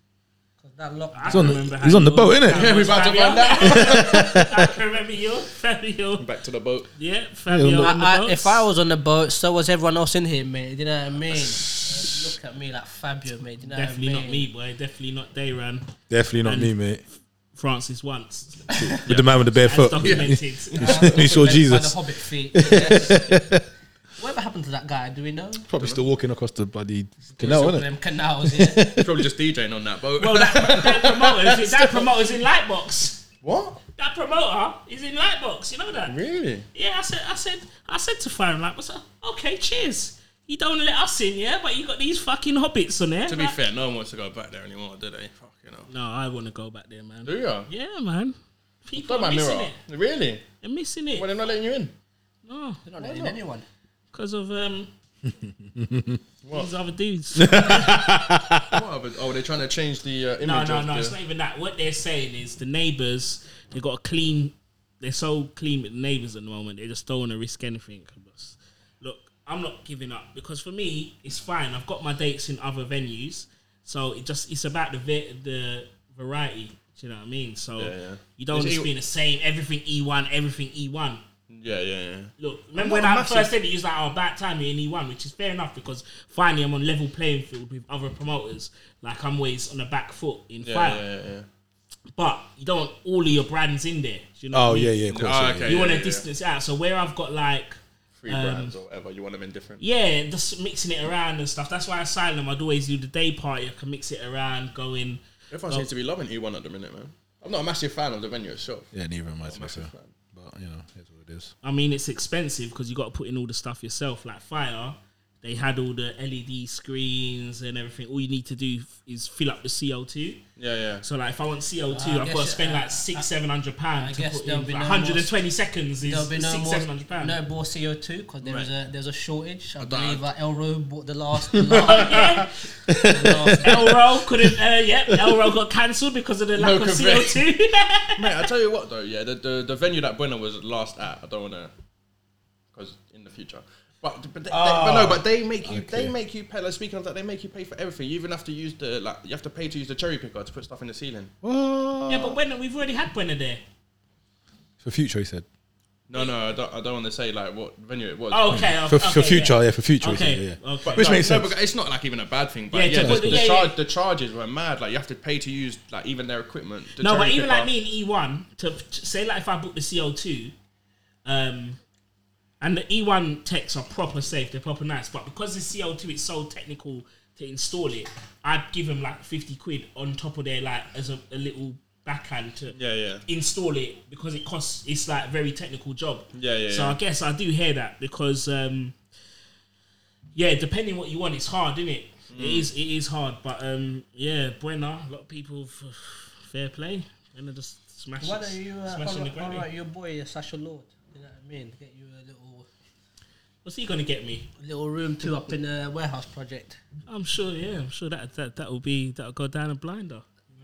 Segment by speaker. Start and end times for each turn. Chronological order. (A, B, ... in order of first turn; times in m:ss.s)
0:00.6-0:01.6 A
0:01.1-0:06.2 B
0:01.3-0:02.9 C
0:02.5-0:04.6 D
0:03.7-0:04.5 C
0:06.2-0:06.9 D
0:07.0-0:08.6 B
0:07.5-0:07.9 C
0:07.8-0:14.5 A
0:13.6-0:15.9 B
0:16.1-0:17.0 C
0:16.4-0:17.0 B
0:17.6-0:18.9 B
0:18.8-0:23.6 C
0:19.1-0:20.4 D
0:19.5-0:21.2 B
0:20.8-0:23.5 A
0:24.2-0:25.7 A
0:25.7-0:29.3 C
0:25.7-0:26.0 D
0:27.3-0:28.9 A
0:29.0-0:32.1 D
0:30.2-0:33.2 B
0:33.4-0:33.8 D
0:34.0-0:36.2 B
0:36.1-0:36.6 D
0:36.7-0:43.6 B
0:43.3-0:45.9 D
0:45.9-0:49.8 B
0:47.2-0:47.7 D
0:49.0-0:50.4 D
0:50.6-0:51.3 B
0:51.1-0:51.9 D
0:52.5-0:53.4 B
0:52.8-0:53.6 A
0:54.1-0:54.9 B
0:55.8-0:56.2 C
0:56.4-0:56.7 D
0:56.5-0:58.1 B
0:57.4-0:58.7 C
0:58.7-1:01.2 D
1:00.4-1:21.2 B
1:17.8-1:18.9 D
1:21.5-1:23.5 D
1:22.4-1:31.0 B
1:30.6-1:31.5 D
1:32.2-1:35.0 B
1:34.5-1:35.8 C
1:35.1-1:36.2 D
1:35.6-1:38.7 B
1:38.2-1:39.8 D
1:39.8-1:45.9 B
1:45.5-1:48.9 D
1:48.9-1:51.5 C
1:49.4-1:50.1 D
1:51.6-2:00.4 B
2:00.6-2:01.0 D
2:01.0-2:07.4 B
2:01.9-2:03.3 A
2:04.0-2:05.3 A
2:06.0-2:12.4 A
2:08.4-2:08.7 D
2:09.8-2:10.2 D
2:11.7-2:13.9 C
2:11.7-2:12.5 B
2:13.0-2:13.9 A
2:13.6-2:18.5 B
2:16.6-2:17.4 D
2:18.2-2:21.7 D
2:22.7-2:31.3 D
2:24.5-2:26.1 C
2:31.4-2:32.4 C
2:32.1-2:33.6 B
2:34.8-2:35.4 C
2:36.1-2:38.8 D
2:38.3-2:41.2 B
2:38.5-2:41.6 C
2:40.8-2:47.7 D
2:42.7-2:43.8 B
2:42.9-2:43.5 C
2:47.0-2:50.5 B
2:51.3-2:51.8 B
2:52.6-3:02.8 B
3:02.7-3:03.2 D
3:03.3-3:09.0 B
3:06.3-3:07.0 D
3:10.4-3:19.7 B
3:12.3-3:12.7 D
3:18.2-3:22.7 A
3:23.6-3:24.5 B
3:24.6-3:26.8 A
3:27.1-3:30.3 B